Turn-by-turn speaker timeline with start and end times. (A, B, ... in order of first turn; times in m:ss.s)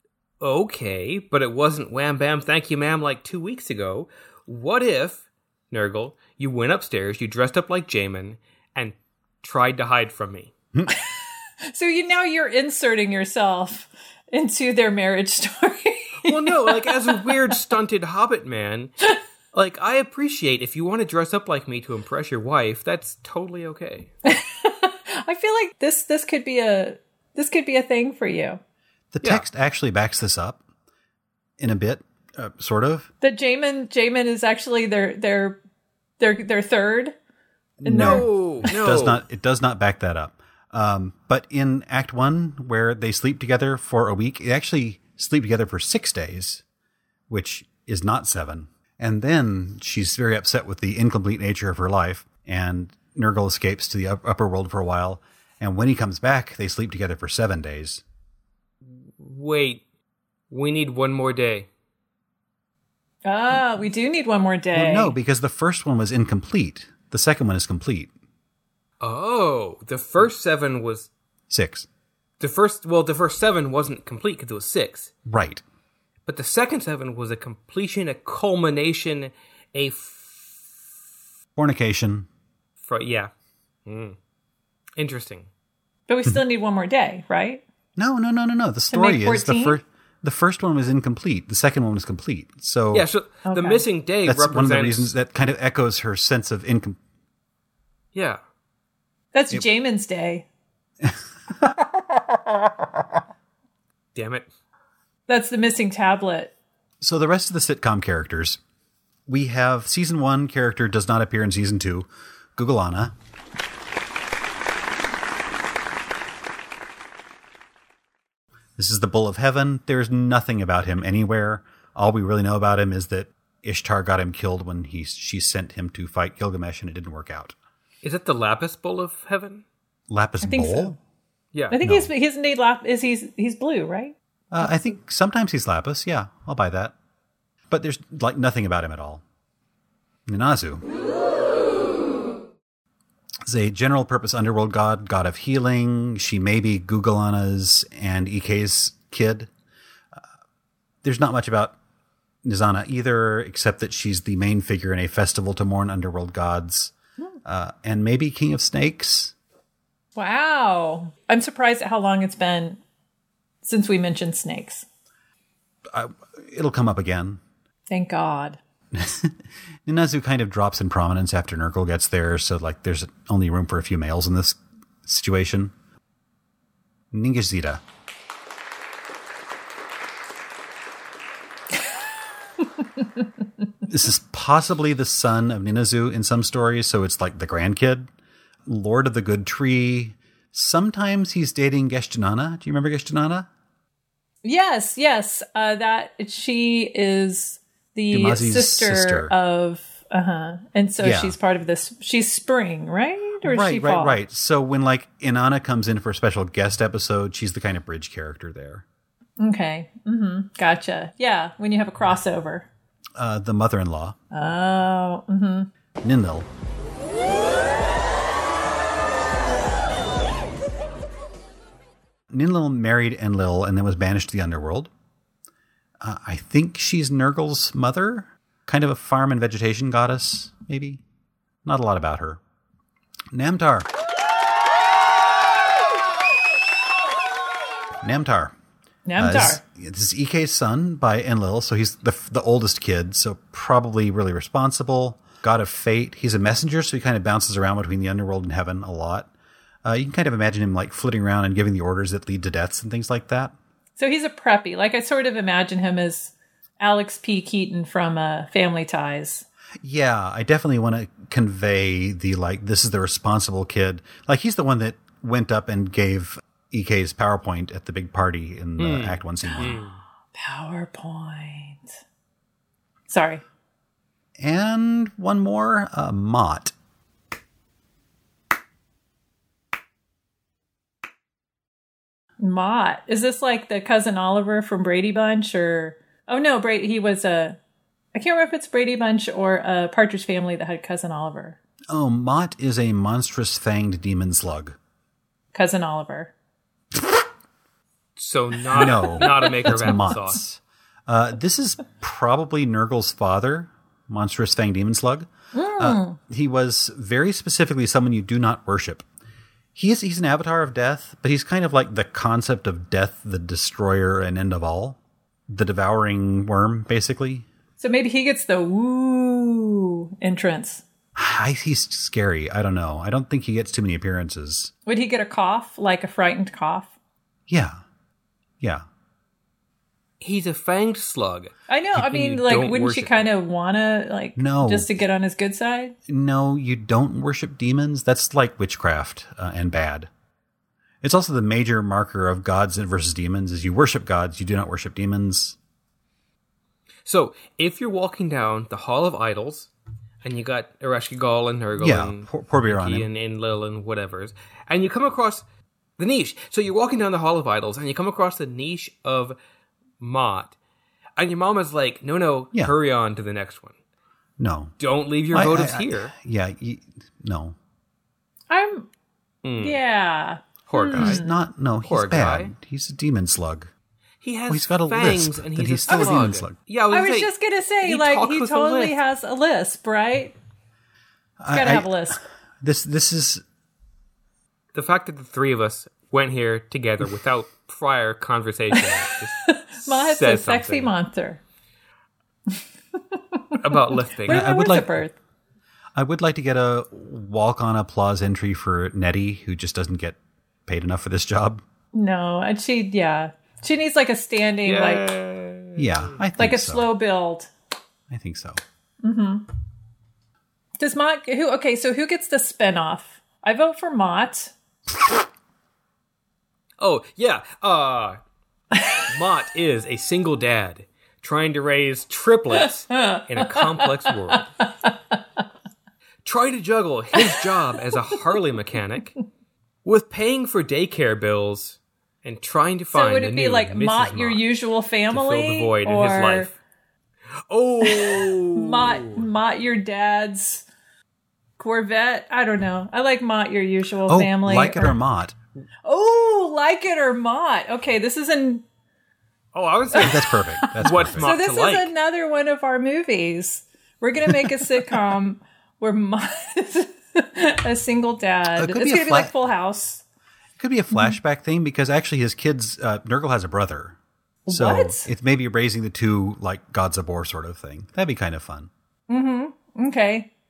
0:00.4-0:10.5 A
0:10.9-0:17.4 B
0:16.2-0:18.9 A
0:19.5-0:24.1 A
0:24.2-0:28.6 B
0:29.1-0:30.6 C
0:31.6-0:33.1 C
0:33.2-0:35.6 B
0:36.2-0:37.1 B
0:37.8-0:46.6 C
0:37.8-0:38.3 B
0:37.9-0:39.2 A
0:47.3-0:58.0 C
0:58.9-0:59.8 A
1:00.5-1:01.7 A
1:03.2-1:05.1 B
1:04.7-1:08.1 C
1:09.0-1:11.1 A
1:11.5-1:11.9 C
1:12.4-1:15.1 A
1:15.2-1:15.6 C
1:16.2-1:20.6 A
1:21.6-1:22.3 C
1:22.8-1:23.3 A
1:23.8-1:24.2 A
1:25.0-1:25.5 A
1:26.1-1:27.6 B
1:28.0-1:33.0 C
1:28.9-1:29.8 B
1:32.9-1:35.1 A
1:33.4-1:33.8 B
1:34.2-1:37.0 C
1:38.1-1:38.4 A
1:39.3-1:40.4 B
1:41.0-1:41.7 C
1:44.1-1:44.4 A
1:45.3-1:46.5 B
1:47.0-1:48.6 C
1:49.3-1:53.1 C
1:58.8-2:07.6 C
2:08.0-2:09.6 A
2:10.1-2:11.0 C
2:10.4-2:11.0 B
2:11.7-2:14.7 B
2:11.8-2:12.1 C
2:14.5-2:16.9 C
2:17.7-2:19.2 C
2:20.3-2:20.8 C
2:23.4-2:29.5 C
2:31.0-2:31.8 C
2:32.4-2:36.9 C
2:37.4-2:39.3 C
2:40.2-2:42.8 B
2:43.6-2:44.8 B
2:45.9-2:47.4 C
2:47.9-2:48.6 B
2:48.9-2:55.7 C
2:57.1-2:57.8 C
3:03.9-3:08.1 C
3:08.6-3:13.5 C
3:14.4-3:24.2 B
3:18.1-3:19.3 C
3:21.0-3:21.4 C
3:23.4-3:28.8 C
3:29.4-3:32.7 B
3:33.2-3:34.2 C
3:34.3-3:35.7 B
3:36.0-3:36.5 C
3:42.3-3:44.9 C
3:46.0-3:51.0 C
3:51.6-3:52.4 C
3:53.3-3:53.9 C
3:58.0-3:58.5 C
3:59.0-3:59.6 B
3:59.2-4:09.3 C
4:09.8-4:13.5 C
4:14.0-4:19.4 B
4:19.8-4:29.8 C
4:28.8-4:30.0 A
4:30.3-4:31.9 B
4:33.1-4:33.4 B
4:34.4-4:36.7 C
4:42.4-4:47.6 B
4:48.1-4:51.6 B
4:51.9-4:54.8 C
4:55.5-4:56.3 B
4:58.2-5:00.4 A
4:58.7-5:09.0 C
4:58.8-5:00.0 B
5:05.5-5:06.2 B
5:09.7-5:17.5 C
5:17.8-5:20.8 B
5:21.1-5:24.7 C
5:24.8-5:26.9 B
5:27.5-5:27.8 C
5:30.2-5:33.2 A
5:31.7-5:35.9 B
5:34.4-5:34.9 C
5:36.1-5:40.1 C
5:41.0-5:45.6 C
5:47.0-5:49.7 A
5:50.2-5:55.4 A
5:51.8-5:53.1 C
5:56.0-5:59.4 A
6:00.0-6:00.5 A
6:01.2-6:03.7 A
6:04.4-6:04.7 C
6:04.8-6:06.1 A
6:05.3-6:07.6 C
6:08.5-6:08.9 B
6:09.4-6:09.8 A
6:09.6-6:11.4 B
6:10.7-6:11.2 A
6:10.9-6:13.7 C
6:11.8-6:12.5 A
6:14.2-6:17.3 A
6:14.5-6:16.5 C
6:16.9-6:20.3 B
6:17.8-6:19.0 A
6:21.4-6:23.4 C
6:21.5-6:22.2 B
6:24.7-6:30.9 A
6:28.7-6:31.4 B
6:33.1-6:35.1 B
6:33.6-6:34.4 A
6:34.3-6:35.0 C
6:35.9-6:41.6 C
6:41.9-6:45.1 B
6:44.6-6:46.2 A
6:45.8-6:46.9 C
6:46.4-6:47.5 B
6:48.1-6:48.6 C
6:49.0-6:49.4 B
6:50.8-6:54.5 B
6:56.8-6:58.2 A
6:59.0-7:04.5 A
7:02.9-7:05.2 B
7:06.2-7:09.1 A
7:09.8-7:14.4 A
7:12.9-7:16.5 B
7:15.1-7:16.5 A
7:17.5-7:19.2 A
7:17.8-7:20.6 B
7:21.6-7:25.0 B
7:24.1-7:25.4 C
7:25.8-7:28.6 B
7:29.5-7:31.9 A
7:29.9-7:40.0 B
7:30.0-7:31.3 C
7:38.6-7:39.4 C
7:40.6-7:48.7 C
7:44.5-7:45.1 B
7:49.1-7:50.3 B